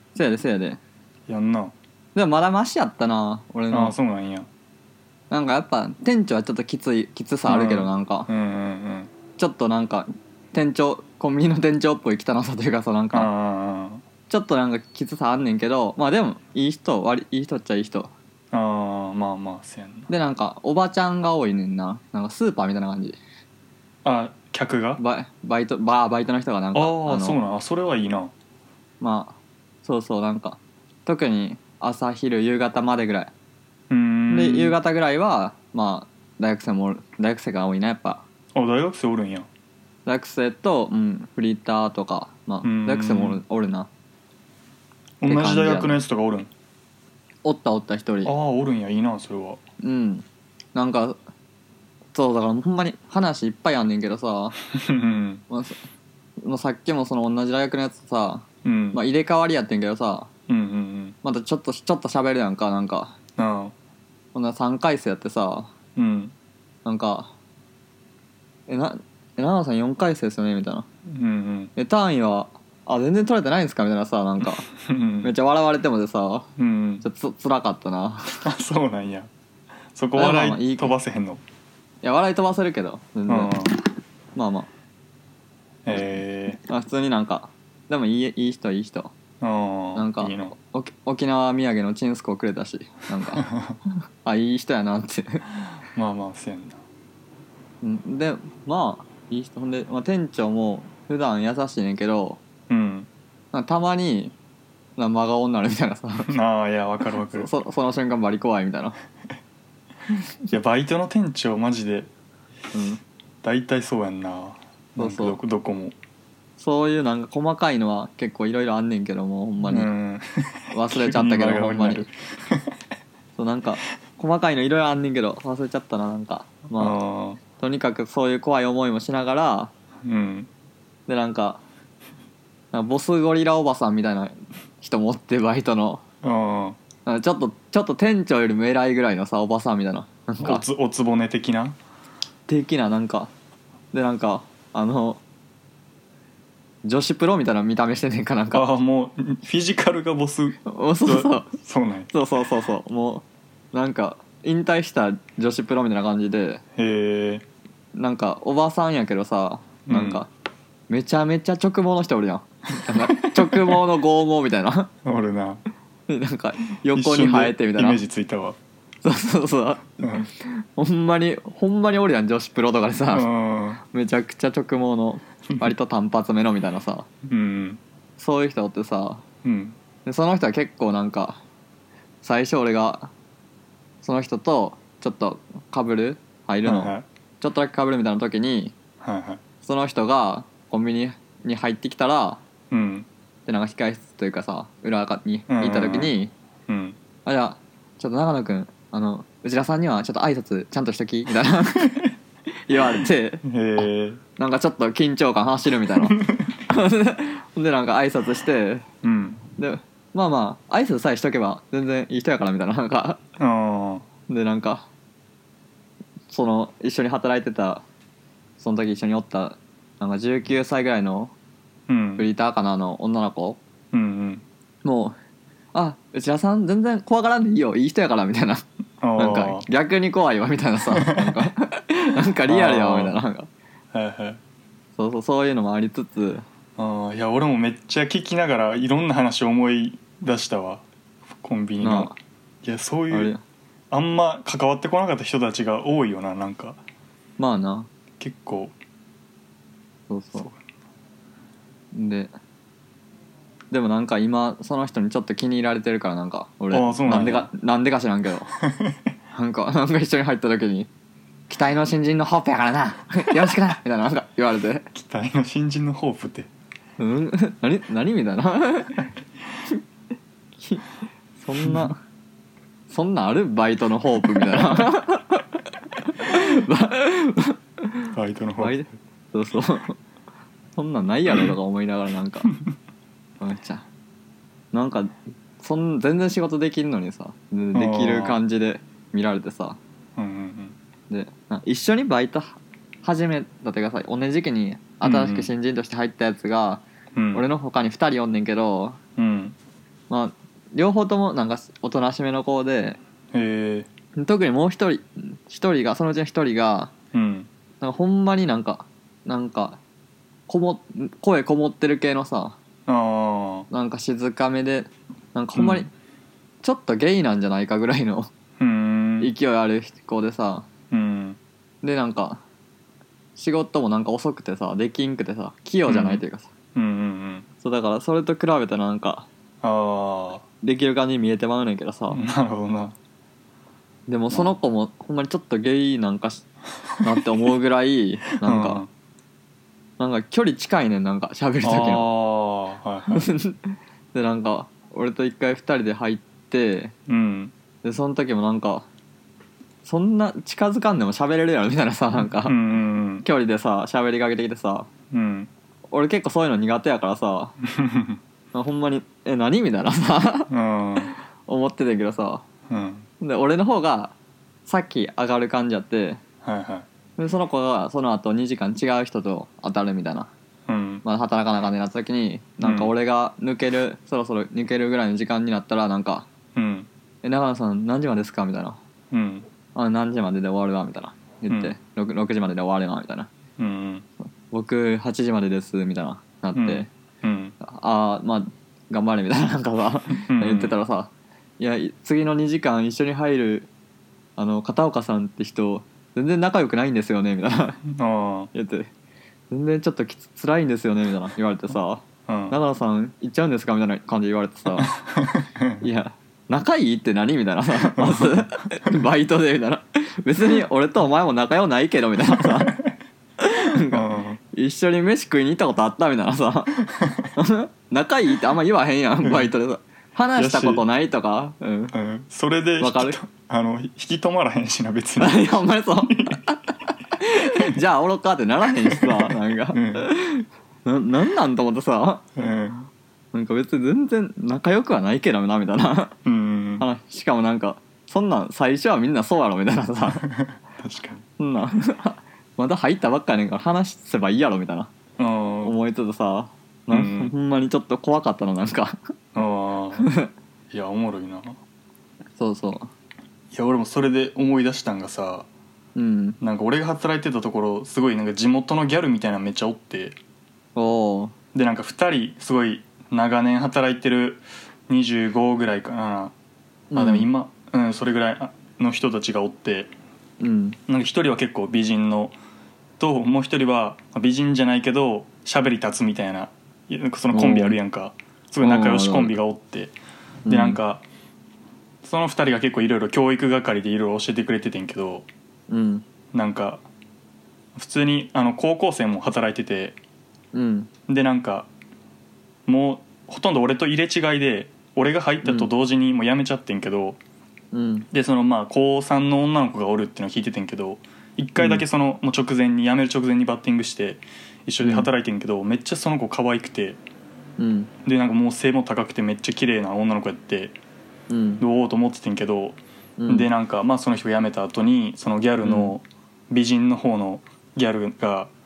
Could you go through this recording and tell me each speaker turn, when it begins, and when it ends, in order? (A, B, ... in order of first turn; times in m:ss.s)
0:00.2-0:00.8 A
0:01.3-0:01.8 B
0:02.2-0:04.0 A
0:03.7-0:04.5 B
0:05.3-0:08.3 A
0:07.5-0:09.1 B
0:09.4-0:13.3 A
0:13.1-0:14.0 B
0:14.3-0:18.1 A
0:18.5-0:20.1 B
0:20.1-0:23.2 A
0:24.0-0:25.0 B
0:25.0-0:27.4 A
0:26.7-0:28.3 B
0:29.0-0:33.3 A
0:33.9-0:34.8 B
0:34.3-0:38.2 A
0:38.6-0:39.5 B
0:40.1-0:43.9 A
0:42.6-0:43.4 B
0:45.2-0:46.5 B
0:45.2-0:46.0 A
0:47.4-0:48.3 A
0:48.2-0:49.6 B
0:49.8-0:51.2 A
0:52.1-0:54.6 A
0:54.7-0:55.4 B
0:55.5-0:55.8 A
0:56.4-1:00.3 A
0:58.6-0:59.0 B
1:00.5-1:01.2 B
1:01.2-1:03.2 A
1:03.4-1:03.7 B
1:04.3-1:05.7 A
1:06.0-1:06.3 B
1:06.8-1:07.3 A
1:08.7-1:10.9 A
1:11.1-1:11.7 B
1:11.8-1:14.7 A
1:14.4-1:15.3 B
1:15.2-1:16.5 A
1:16.6-1:17.0 B
1:17.0-1:18.4 A
1:18.4-1:19.3 B
1:19.9-1:21.4 B
1:20.2-1:21.0 A
1:22.0-1:23.5 A
1:23.3-1:23.8 B
1:24.4-1:24.7 A
1:25.8-1:26.6 B
1:26.7-1:29.1 A
1:29.4-1:30.6 B
1:30.0-1:33.5 A
1:33.3-1:33.8 B
1:34.2-1:35.5 A
1:35.9-1:36.8 B
1:37.8-1:42.4 A
1:42.7-1:43.1 B
1:43.5-1:44.4 A
1:45.0-1:46.4 A
1:46.3-1:47.5 B
1:47.2-1:49.0 A
1:50.5-1:52.1 B
1:52.7-1:53.0 A
1:53.4-1:56.0 B
1:55.0-1:55.4 A
1:56.6-1:59.9 A
1:59.7-2:02.8 B
2:00.7-2:02.1 A
2:03.4-2:07.0 A
2:06.8-2:07.4 B
2:07.6-2:09.7 A
2:10.0-2:10.5 B
2:11.1-2:11.6 A
2:12.7-2:16.0 A
2:16.2-2:16.8 B
2:17.0-2:20.7 A
2:20.4-2:21.8 B
2:22.5-2:23.3 A
2:23.9-2:25.2 A
2:26.8-2:28.7 A
2:28.5-2:32.1 B
2:30.7-2:31.5 A
2:32.1-2:36.6 A
2:36.8-2:37.5 B
2:38.0-2:40.3 A
2:39.9-2:40.2 B
2:40.9-2:44.9 A
2:42.9-2:43.9 B
2:45.0-2:45.6 B
2:46.1-2:48.0 A
2:46.9-2:48.6 B
2:49.0-2:53.3 A
2:50.0-2:50.3 B
2:53.1-2:53.8 B
2:53.8-2:57.1 A
2:57.3-2:57.8 B
2:58.2-2:59.2 A
2:59.4-2:59.8 B
3:00.0-3:01.4 A
3:02.2-3:03.1 A
3:04.0-3:08.8 A
3:06.6-3:07.0 B
3:09.0-3:09.4 B
3:09.6-3:12.4 A
3:12.7-3:13.1 B
3:13.5-3:16.3 A
3:15.5-3:16.2 B
3:16.7-3:17.0 B
3:17.2-3:22.1 A
3:22.7-3:23.8 A
3:23.4-3:24.2 B
3:24.4-3:28.8 A
3:26.0-3:26.5 B
3:29.0-3:29.4 B
3:29.6-3:33.2 A
3:33.4-3:34.0 B
3:34.3-3:34.9 A
3:36.3-3:37.8 A
3:38.6-3:41.3 A
3:41.9-3:42.3 B
3:42.2-3:43.6 A
3:43.9-3:44.4 B
3:44.8-3:45.2 A
3:45.7-3:48.6 A
3:49.0-3:49.7 B
3:49.2-3:53.5 A
3:50.9-3:51.5 B
3:52.5-3:53.2 B
3:53.9-3:54.4 B
3:55.0-3:56.4 A
3:56.8-4:03.3 B
4:01.8-4:02.1 A
4:03.1-4:03.4 A
4:03.9-4:06.8 B
4:07.4-4:07.9 A
4:08.2-4:08.8 B
4:10.1-4:10.5 A
4:10.3-4:10.6 B
4:11.9-4:12.3 A
4:13.7-4:18.5 A
4:16.7-4:17.5 B
4:18.6-4:19.0 B
4:19.3-4:20.9 A
4:21.5-4:24.9 A
4:24.9-4:26.5 B
4:27.0-4:29.0 A
4:30.6-4:30.8 A
4:31.4-4:32.0 A
4:31.6-4:31.9 B
4:32.9-4:40.0 A
4:38.1-4:38.8 B
4:40.8-4:42.5 A
4:43.4-4:43.9 A
4:44.7-4:49.8 A
4:47.7-4:48.4 B
4:50.2-4:50.8 B
4:51.1-4:56.8 A
4:55.0-4:55.5 B
4:57.1-4:57.5 B
4:57.3-4:59.0 A
4:59.2-4:59.6 B
5:00.1-5:03.0 A
5:03.3-5:03.9 B
5:04.2-5:06.9 A
5:07.1-5:07.5 B
5:07.8-5:09.8 A
5:10.5-5:12.6 A
5:12.9-5:13.7 B
5:13.7-5:15.9 A
5:15.6-5:15.9 B
5:16.6-5:18.3 A
5:18.6-5:19.3 B
5:19.2-5:20.7 A
5:20.9-5:21.4 B
5:21.8-5:22.4 A
5:23.4-5:26.5 A
5:25.9-5:26.2 B
5:26.8-5:27.5 B
5:27.6-5:29.3 A
5:29.6-5:30.4 B
5:30.6-5:32.2 A
5:32.1-5:33.0 B
5:34.1-5:36.4 A
5:34.3-5:34.6 B
5:37.0-5:38.8 A
5:38.4-5:38.9 B
5:40.0-5:42.1 A
5:41.6-5:43.3 B
5:43.1-5:46.9 A
5:47.1-5:47.5 B
5:47.8-5:48.9 A
5:49.8-5:52.6 A
5:52.4-5:53.2 B
5:53.2-5:54.9 A
5:55.1-5:55.5 B
5:55.9-5:57.6 A
5:57.7-5:58.2 B
5:58.5-6:00.5 A
6:00.5-6:01.1 B
6:01.0-6:02.4 A
6:02.7-6:03.1 B
6:03.2-6:04.1 A
6:04.6-6:06.2 A
6:06.4-6:06.9 B
6:07.2-6:10.3 A
6:10.7-6:11.0 B
6:11.0-6:16.3 A
6:12.6-6:12.9 B
6:16.6-6:16.9 B
6:17.2-6:18.8 A
6:19.1-6:19.5 B
6:19.8-6:23.3 A
6:21.5-6:21.7 B
6:23.6-6:24.1 B
6:24.5-6:26.9 A
6:26.5-6:27.6 B
6:27.6-6:33.7 A
6:30.1-6:30.8 B
6:34.4-6:37.8 A
6:37.8-6:38.5 B
6:38.5-6:38.9 A
6:39.5-6:45.0 A
6:42.3-6:42.6 B
6:44.8-6:45.8 B
6:45.8-6:52.8 A
6:47.8-6:48.7 B
6:52.4-6:52.9 B
6:53.4-6:56.8 A
6:53.9-6:54.4 B
6:57.0-6:57.3 B
6:57.4-7:02.0 A
6:59.2-6:59.5 B
7:00.4-7:00.8 B
7:01.9-7:06.4 B
7:02.8-7:03.2 A
7:05.2-7:12.2 A
7:08.9-7:10.1 B
7:12.4-7:12.9 B
7:13.3-7:16.2 A
7:16.2-7:16.9 B
7:16.8-7:20.2 A
7:20.0-7:21.2 B
7:21.4-7:24.9 A
7:25.2-7:25.7 B
7:25.6-7:29.0 A
7:26.9-7:27.3 B
7:29.4-7:30.0 B
7:30.0-7:30.3 A
7:30.7-7:31.6 B
7:32.4-7:32.9 A
7:33.5-7:35.5 B
7:36.0-7:36.4 A
7:36.4-7:40.2 B
7:40.8-7:41.3 A
7:41.5-7:46.4 B
7:46.9-7:47.3 A
7:47.0-7:49.9 B
7:50.4-7:50.8 A
7:50.9-7:52.4 B
7:53.0-8:00.0 B
7:57.3-7:57.8 A
7:58.6-7:59.4 A
8:00.5-8:00.8 A
8:00.5-8:01.1 B
8:02.0-8:05.3 B
8:05.7-8:06.0 A
8:06.3-8:06.8 B
8:07.8-8:10.0 B
8:10.5-8:10.9 A
8:11.1-8:11.7 B
8:12.7-8:17.2 B
8:15.4-8:15.7 A
8:17.7-8:18.1 A
8:18.1-8:27.0 B
8:21.6-8:21.8 A
8:24.8-8:25.1 A
8:27.6-8:27.9 A
8:28.0-8:30.8 B
8:31.3-8:31.6 A
8:31.6-8:38.5 B
8:33.2-8:33.5 A
8:35.6-8:35.9 A